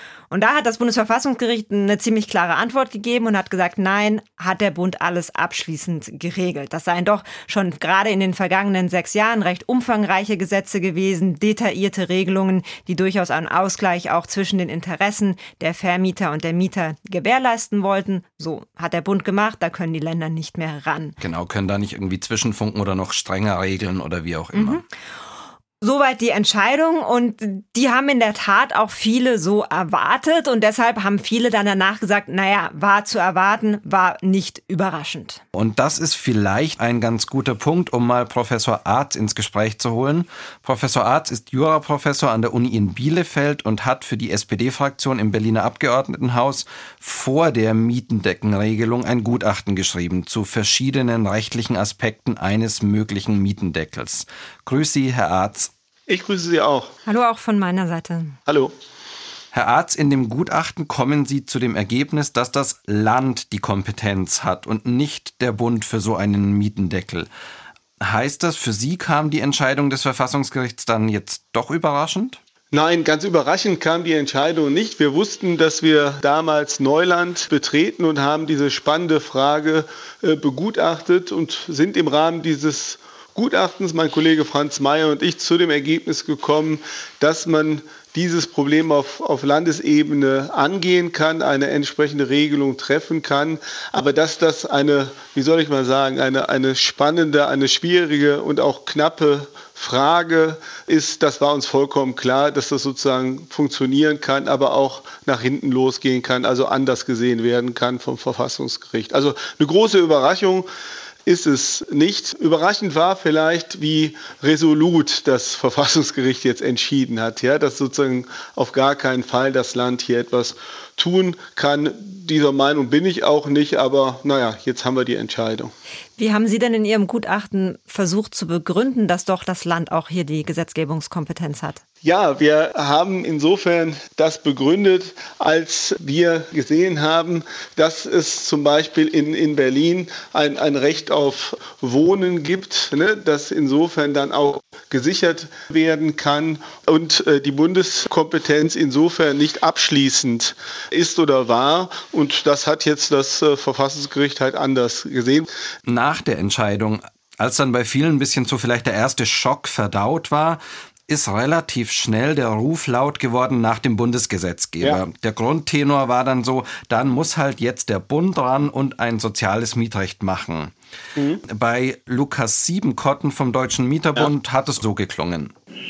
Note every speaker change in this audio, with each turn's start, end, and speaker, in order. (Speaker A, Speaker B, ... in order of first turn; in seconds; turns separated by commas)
Speaker A: 0.3-21.1, Speaker B: 21.2-24.8, Speaker A: 24.5-24.8, Speaker A: 25.8-35.4, Speaker B: 35.5-55.7, Speaker C: 56.1-56.9, Speaker A: 57.0-58.4, Speaker C: 58.5-58.7, Speaker B: 59.5-67.3, Speaker B: 68.0-72.4, Speaker C: 72.7-110.7, Speaker C: 111.2-125.7, Speaker A: 126.2-131.8, Speaker C: 132.0-155.5, Speaker B: 155.8-170.7, Speaker C: 171.2-171.4, Speaker B: 171.5-175.5